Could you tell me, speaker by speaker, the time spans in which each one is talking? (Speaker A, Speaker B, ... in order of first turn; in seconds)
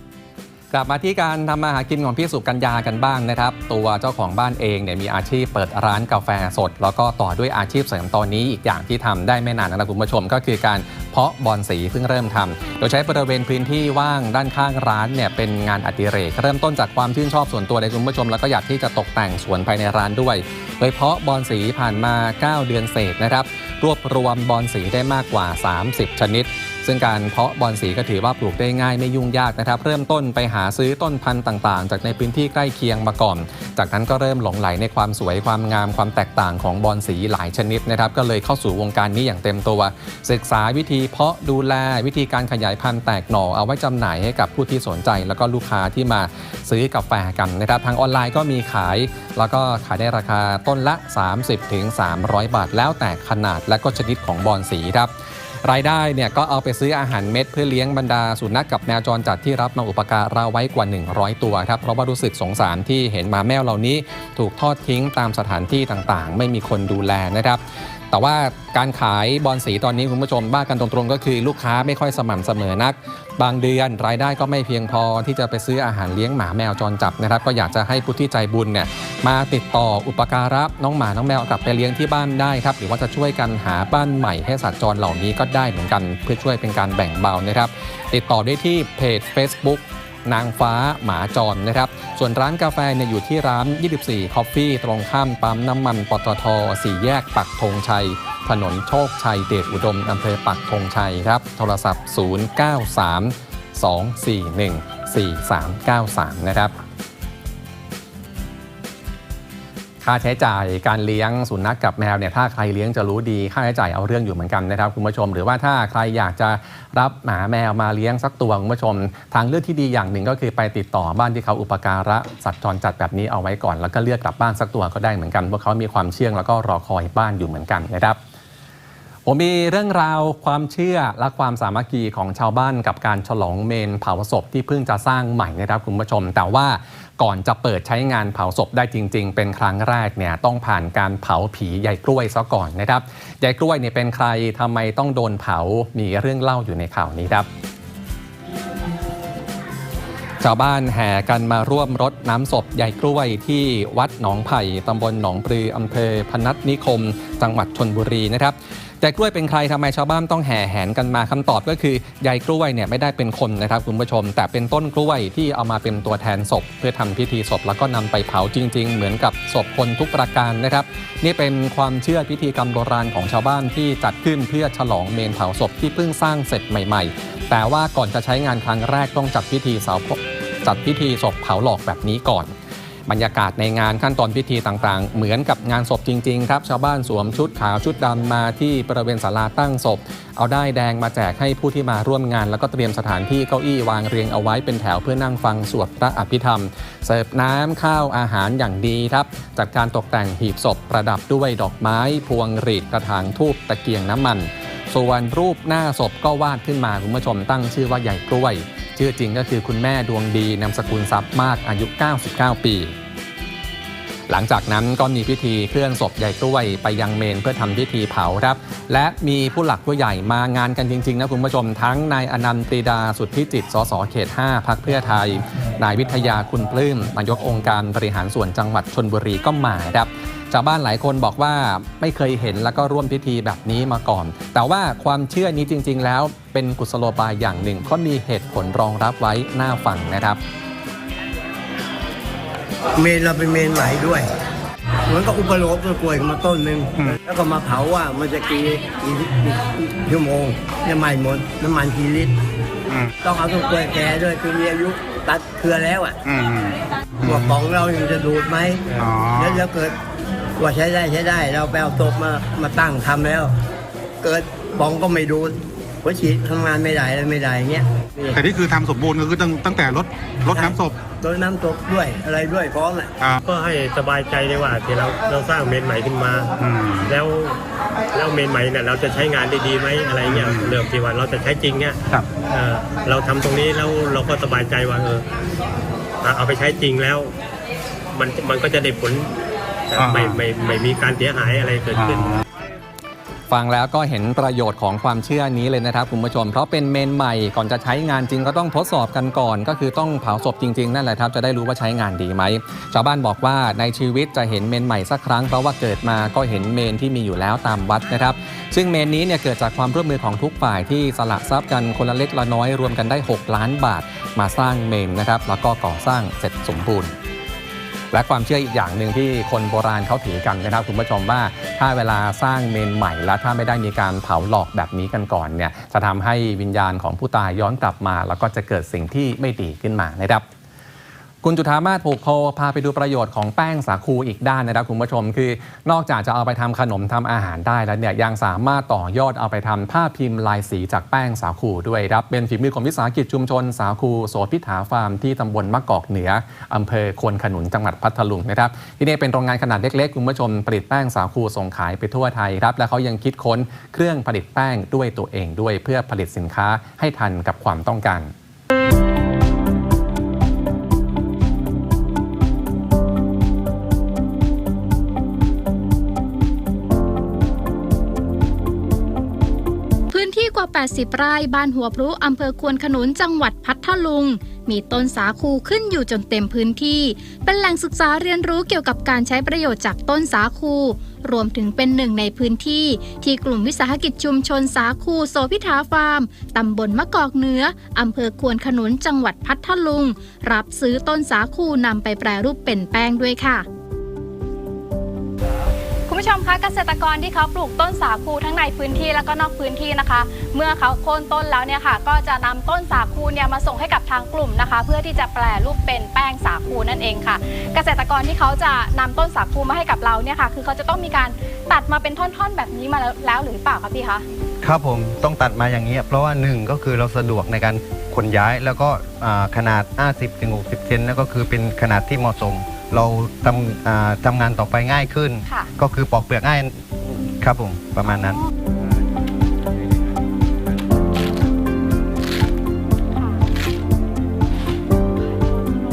Speaker A: 0.7-55.1, 55.6-106.7, 110.0-128.2, 129.2-147.5, 150.4-182.5, 183.1-212.9, 214.3-240.4, 293.5-317.1, 318.1-330.4, 331.4-358.3
Speaker B: 242.9-244.3, 245.1-252.4, 253.2-256.2, 257.2-260.0, 260.6-263.6, 264.2-268.4, 270.5-273.1
Speaker C: 252.9-253.1, 256.2-257.6, 258.9-259.6, 268.3-271.0, 276.6-277.1, 280.3-280.8, 289.9-290.4, 291.9-292.4
Speaker D: 273.4-276.5, 277.1-277.6, 278.1-285.2, 286.2-287.3, 288.1-289.3, 289.9-292.3
Speaker E: 370.1-393.6
Speaker F: 396.1-414.2, 428.1-428.4
Speaker G: 414.6-428.4